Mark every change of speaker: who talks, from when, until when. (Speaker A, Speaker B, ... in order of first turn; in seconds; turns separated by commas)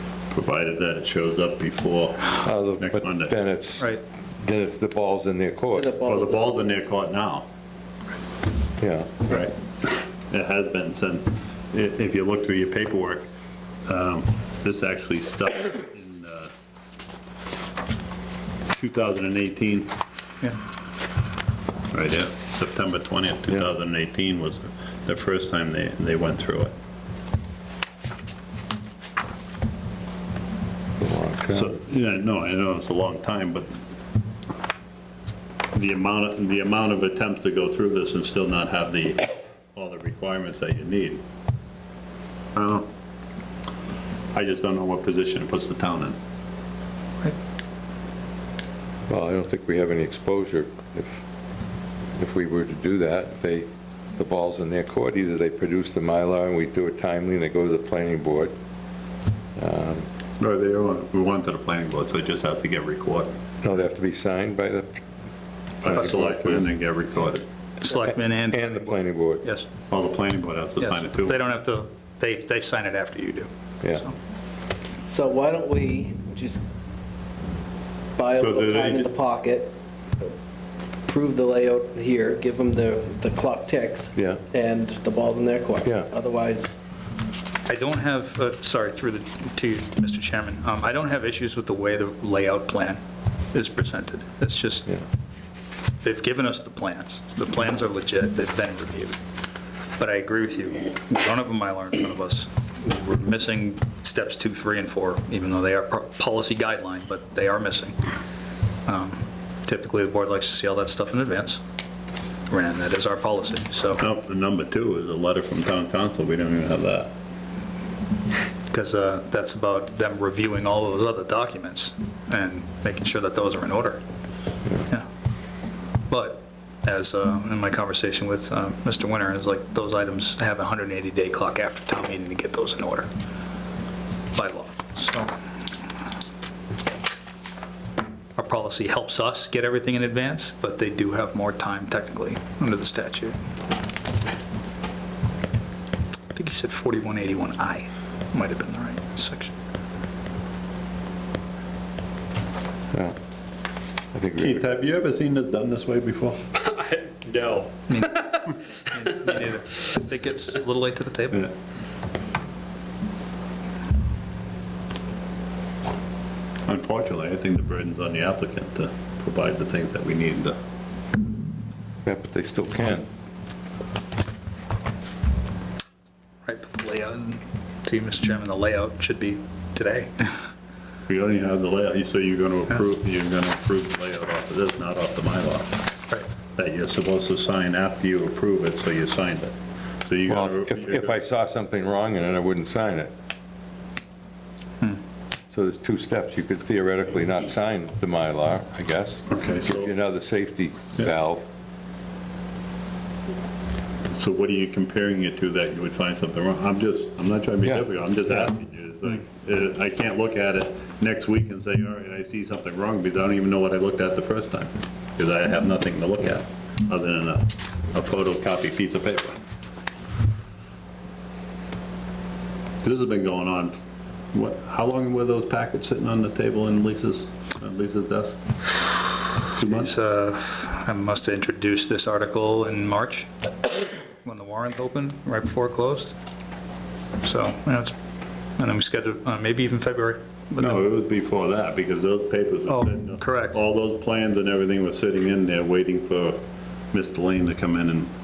Speaker A: 0.3-3.3, Speaker B: 2.4-5.9, Speaker C: 5.7-6.7, Speaker A: 6.0-7.4, Speaker B: 8.8-9.2, Speaker A: 9.2-13.2, Speaker A: 13.8-16.5, Speaker A: 18.7-19.9, Speaker A: 21.9-26.7, Speaker B: 31.0-31.8, Speaker A: 31.5-33.8, Speaker A: 35.7-41.2, Speaker A: 42.5-42.9, Speaker A: 44.3-46.1, Speaker B: 49.1-51.2, Speaker B: 52.1-58.5, Speaker B: 59.5-60.1, Speaker A: 60.4-63.3, Speaker B: 63.6-65.0, Speaker A: 65.8-67.5, Speaker B: 65.8-66.7, Speaker D: 67.8-69.7, Speaker B: 68.5-69.5, Speaker A: 69.9-71.4, Speaker D: 70.8-74.1, Speaker C: 75.1-76.6, Speaker C: 78.2-79.7, Speaker A: 78.4-79.1, Speaker C: 81.0-86.7, Speaker B: 84.2-84.4, Speaker D: 87.7-93.0, Speaker D: 93.5-94.9, Speaker D: 96.0-99.2, Speaker D: 100.0-108.0, Speaker D: 108.8-111.6, Speaker D: 112.5-114.0, Speaker A: 114.0-117.1, Speaker D: 118.7-124.0, Speaker D: 126.1-133.1, Speaker D: 134.3-135.3, Speaker D: 138.3-143.3, Speaker D: 146.3-149.5, Speaker B: 154.1-154.6, Speaker A: 154.4-157.7, Speaker D: 157.9-161.5, Speaker A: 166.7-170.6, Speaker B: 172.0-173.1, Speaker D: 176.4-180.4, Speaker A: 181.1-185.8, Speaker A: 186.5-191.2, Speaker B: 190.3-193.1, Speaker B: 195.5-201.4, Speaker A: 199.3-199.9, Speaker A: 204.1-219.4, Speaker A: 222.8-223.7, Speaker A: 224.3-228.4, Speaker D: 229.6-233.3, Speaker A: 229.6-229.9, Speaker D: 234.2-236.2, Speaker D: 237.2-237.9, Speaker D: 238.6-240.8, Speaker A: 240.6-246.4, Speaker D: 242.7-243.6, Speaker A: 246.9-248.1